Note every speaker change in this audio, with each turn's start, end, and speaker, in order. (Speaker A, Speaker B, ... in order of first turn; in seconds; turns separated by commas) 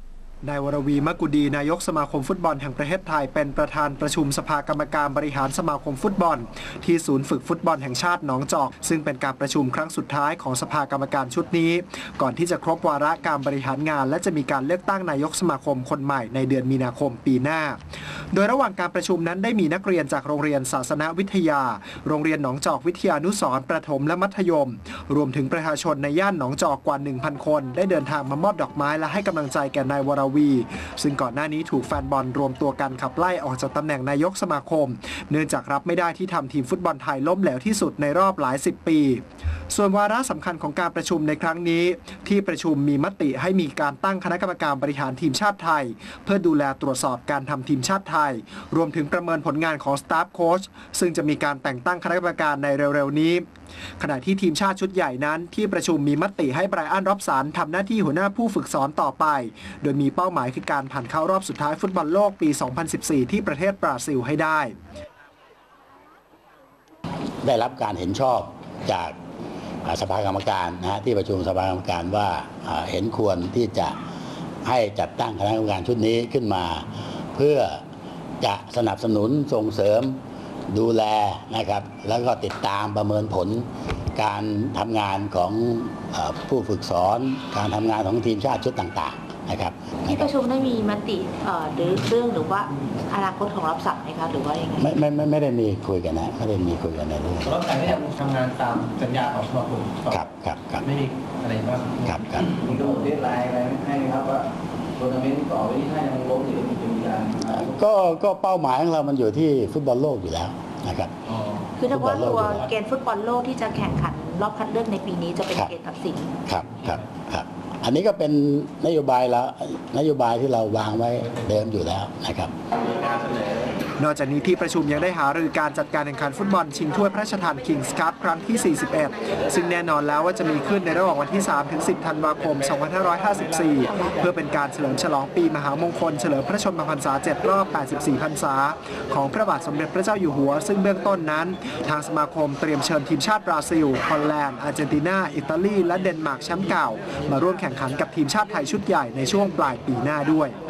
Speaker A: 0.4-17.8, Speaker A: 18.3-53.4, Speaker A: 54.0-64.7, Speaker B: 67.4-69.1, Speaker B: 69.8-74.0, Speaker B: 74.6-77.8, Speaker B: 78.4-80.2, Speaker B: 80.7-90.3, Speaker C: 90.1-94.9, Speaker B: 94.8-98.0, Speaker D: 97.4-100.2, Speaker B: 100.1-100.8, Speaker D: 100.8-102.0, Speaker B: 102.0-102.5, Speaker E: 102.4-107.8, Speaker B: 107.5-111.1, Speaker C: 111.8-116.3, Speaker B: 111.9-112.7, Speaker B: 116.5-122.5, Speaker A: 124.0-150.6